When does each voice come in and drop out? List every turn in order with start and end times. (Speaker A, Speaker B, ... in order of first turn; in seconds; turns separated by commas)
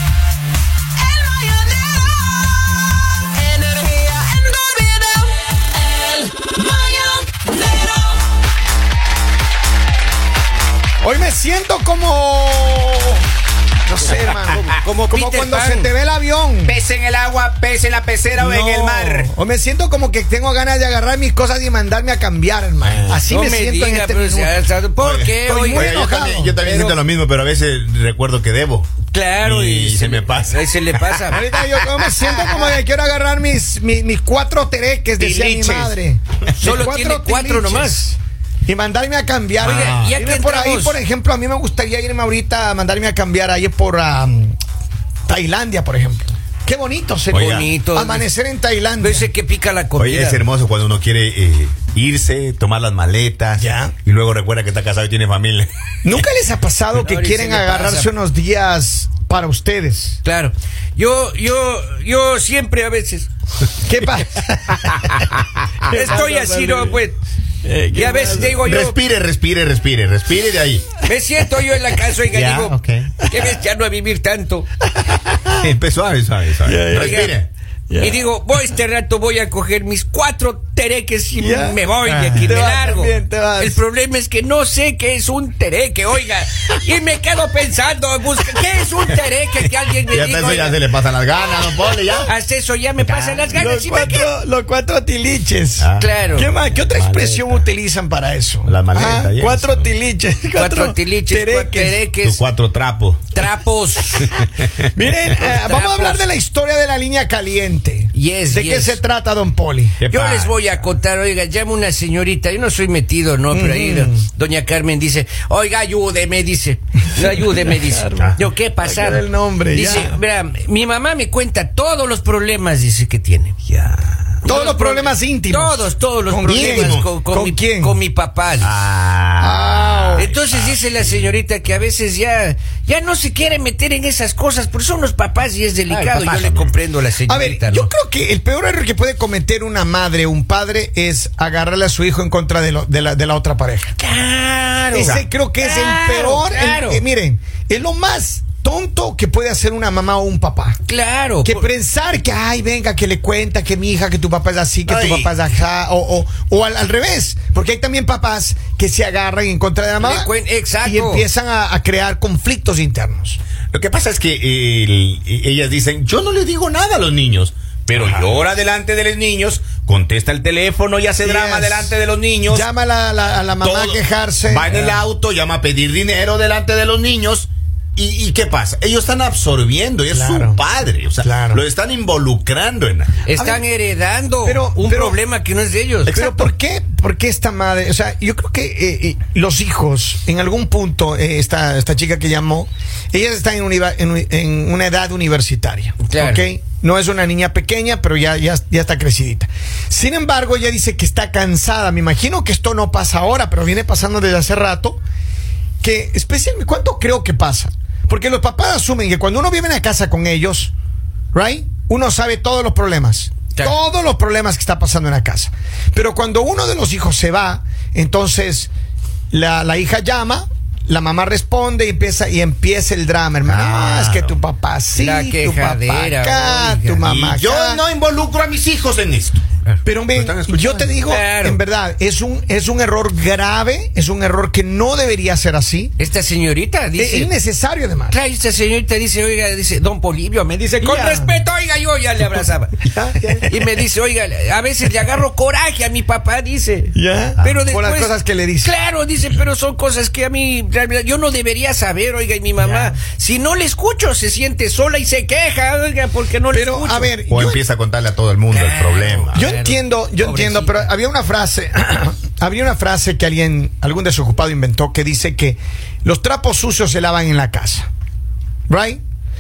Speaker A: 1.3-1.8, Speaker A: 3.6-5.3, Speaker A: 5.9-7.9, Speaker B: 11.0-13.2, Speaker B: 13.8-16.8, Speaker A: 14.8-15.9, Speaker C: 16.6-19.3, Speaker B: 18.4-24.5, Speaker C: 22.8-23.2, Speaker A: 23.3-26.0, Speaker C: 25.0-28.9, Speaker B: 25.5-26.9, Speaker A: 29.1-31.5, Speaker C: 29.4-30.6, Speaker B: 31.3-44.6, Speaker A: 35.2-36.0, Speaker A: 36.6-38.0, Speaker A: 39.6-41.0, Speaker C: 39.7-40.1, Speaker B: 45.3-49.3, Speaker A: 47.3-48.3, Speaker C: 47.3-47.7, Speaker A: 49.0-50.5, Speaker C: 50.0-55.7, Speaker B: 53.6-54.0, Speaker B: 56.0-60.2, Speaker A: 57.0-58.1, Speaker A: 60.2-63.3, Speaker B: 63.9-65.3, Speaker A: 65.0-67.2, Speaker B: 65.8-67.0, Speaker B: 67.6-68.6, Speaker A: 67.9-69.0, Speaker C: 68.6-71.0, Speaker A: 71.1-74.7, Speaker C: 72.2-73.3, Speaker B: 75.0-75.5, Speaker C: 75.6-77.5, Speaker B: 76.6-77.3, Speaker A: 76.9-77.3, Speaker B: 77.9-78.2, Speaker A: 78.0-90.8, Speaker B: 81.4-83.8, Speaker C: 90.1-92.3, Speaker A: 92.2-94.3, Speaker B: 93.5-102.0, Speaker C: 95.8-97.7, Speaker A: 96.0-96.5, Speaker C: 98.7-99.9, Speaker A: 100.5-102.4, Speaker C: 102.2-103.3, Speaker A: 103.3-104.4, Speaker B: 104.9-110.0, Speaker A: 105.3-106.3, Speaker A: 108.1-109.0, Speaker C: 110.0-110.5, Speaker A: 110.1-123.6, Speaker B: 113.5-114.2, Speaker B: 117.3-120.2, Speaker C: 123.7-124.3, Speaker B: 124.5-128.0, Speaker A: 124.5-128.7, Speaker C: 126.5-127.1, Speaker C: 128.6-131.2, Speaker B: 129.4-130.3, Speaker A: 130.2-137.9, Speaker C: 135.9-136.7, Speaker B: 137.3-144.0, Speaker A: 144.0-147.0, Speaker B: 144.9-150.8, Speaker A: 150.9-151.6, Speaker B: 151.4-160.3, Speaker C: 154.9-155.3, Speaker A: 160.0-161.3, Speaker B: 160.8-163.4, Speaker C: 163.7-172.7, Speaker B: 171.2-171.9, Speaker B: 172.5-174.8, Speaker C: 173.6-183.3, Speaker B: 180.1-180.6, Speaker B: 181.2-181.6, Speaker A: 183.2-186.1, Speaker B: 183.3-183.6, Speaker B: 184.4-185.2, Speaker C: 186.1-186.5, Speaker B: 186.1-205.0, Speaker A: 196.0-196.4, Speaker B: 205.8-210.7, Speaker B: 211.3-218.7, Speaker B: 219.3-227.8, Speaker C: 223.4-224.3, Speaker A: 224.9-227.0, Speaker C: 227.0-229.4, Speaker B: 229.8-235.9, Speaker C: 230.1-230.9, Speaker A: 231.0-231.6, Speaker A: 236.0-237.3, Speaker B: 237.0-238.2, Speaker A: 238.1-242.8, Speaker B: 240.8-241.4, Speaker B: 242.9-243.4, Speaker C: 243.1-243.5, Speaker A: 243.5-257.1, Speaker B: 246.9-248.7, Speaker B: 252.6-252.9, Speaker B: 256.5-257.6, Speaker C: 257.3-259.4, Speaker A: 258.5-260.9, Speaker B: 259.3-267.9, Speaker B: 268.7-269.0